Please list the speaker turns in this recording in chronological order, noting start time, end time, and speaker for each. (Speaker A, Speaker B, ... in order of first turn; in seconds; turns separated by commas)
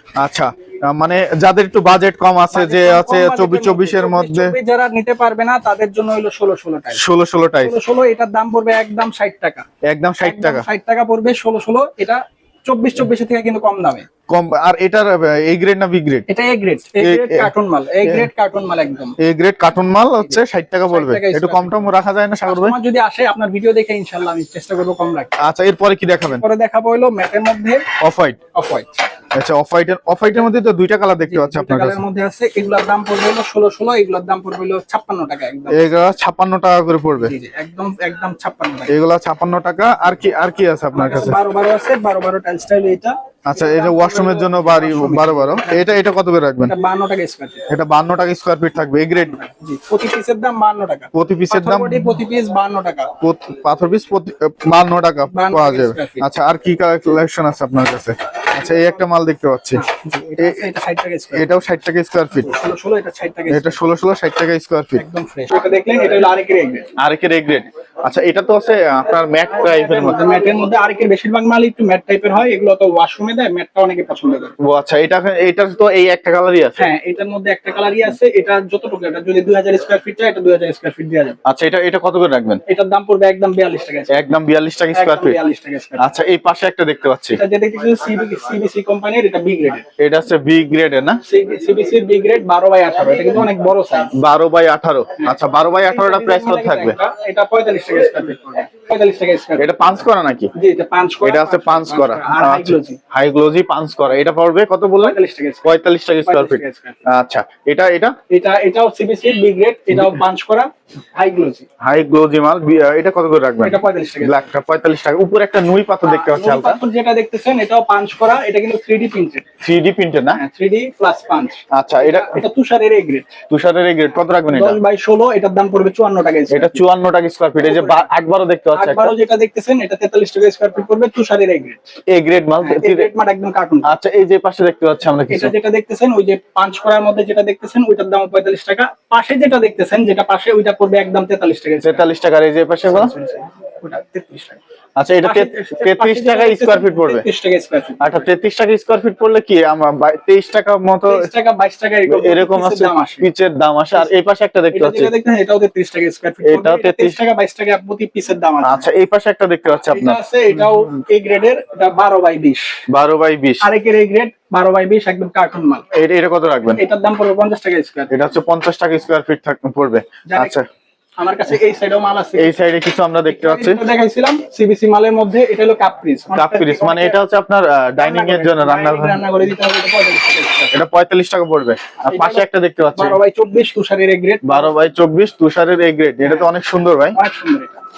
Speaker A: 0.2-4.5, Speaker B: 2.5-7.0, Speaker A: 6.9-7.7, Speaker B: 7.6-9.6, Speaker A: 9.8-10.7, Speaker B: 10.2-14.1, Speaker A: 14.3-16.2, Speaker B: 16.3-19.1, Speaker A: 17.0-17.5, Speaker A: 19.2-22.7, Speaker B: 20.2-21.9, Speaker B: 22.5-25.3, Speaker A: 25.4-26.4, Speaker B: 26.4-27.8, Speaker A: 28.0-28.4, Speaker B: 28.5-29.1, Speaker A: 29.3-32.0, Speaker B: 31.2-35.9, Speaker A: 35.7-37.3, Speaker B: 37.2-38.9, Speaker A: 38.9-41.4, Speaker B: 40.9-46.0, Speaker A: 43.5-46.7, Speaker B: 46.6-47.6, Speaker A: 47.7-49.4, Speaker B: 49.2-53.1, Speaker A: 51.1-52.1, Speaker A: 53.2-59.8, Speaker B: 55.3-56.2, Speaker B: 59.7-61.5, Speaker A: 61.3-62.5, Speaker B: 62.3-63.9, Speaker A: 63.5-65.0, Speaker B: 65.0-66.9, Speaker A: 67.0-70.2, Speaker B: 69.5-74.5, Speaker A: 74.6-76.8, Speaker B: 76.8-81.4, Speaker A: 81.5-82.6, Speaker B: 82.7-84.2, Speaker A: 84.1-85.4, Speaker B: 84.9-86.1, Speaker A: 86.0-87.4, Speaker B: 87.3-89.8, Speaker A: 90.0-91.2, Speaker B: 91.3-94.1, Speaker A: 94.1-97.0, Speaker B: 95.2-99.7, Speaker A: 99.6-100.5, Speaker B: 100.5-103.0, Speaker A: 101.2-108.1, Speaker B: 105.0-105.7, Speaker B: 106.2-107.0, Speaker B: 108.3-111.7, Speaker A: 111.8-116.8, Speaker B: 113.6-114.5, Speaker B: 116.0-119.4, Speaker A: 119.6-120.4, Speaker B: 120.3-123.3, Speaker A: 121.7-122.4, Speaker A: 123.5-124.8, Speaker B: 124.5-126.8, Speaker A: 126.5-129.1, Speaker B: 127.6-128.1, Speaker B: 128.7-131.8, Speaker A: 132.1-133.1, Speaker B: 132.6-133.9, Speaker A: 133.8-135.5, Speaker B: 135.3-142.0, Speaker A: 141.8-143.1, Speaker B: 142.8-144.6, Speaker A: 145.0-147.2, Speaker B: 145.2-148.3, Speaker A: 148.0-151.2, Speaker B: 151.1-153.3, Speaker A: 152.1-155.1, Speaker B: 154.7-158.9, Speaker A: 156.4-157.2, Speaker A: 158.6-160.2, Speaker B: 159.9-162.7, Speaker A: 162.9-163.7, Speaker B: 163.6-165.8, Speaker A: 165.9-166.8, Speaker B: 166.7-168.1, Speaker A: 168.1-170.6, Speaker B: 170.3-170.6, Speaker B: 171.2-172.5, Speaker A: 172.4-173.8, Speaker B: 173.3-177.2, Speaker A: 176.3-179.2, Speaker B: 178.0-180.7, Speaker A: 180.7-183.2, Speaker B: 182.1-182.4, Speaker B: 182.9-184.7, Speaker A: 184.5-187.2, Speaker B: 186.2-186.5, Speaker B: 187.1-187.8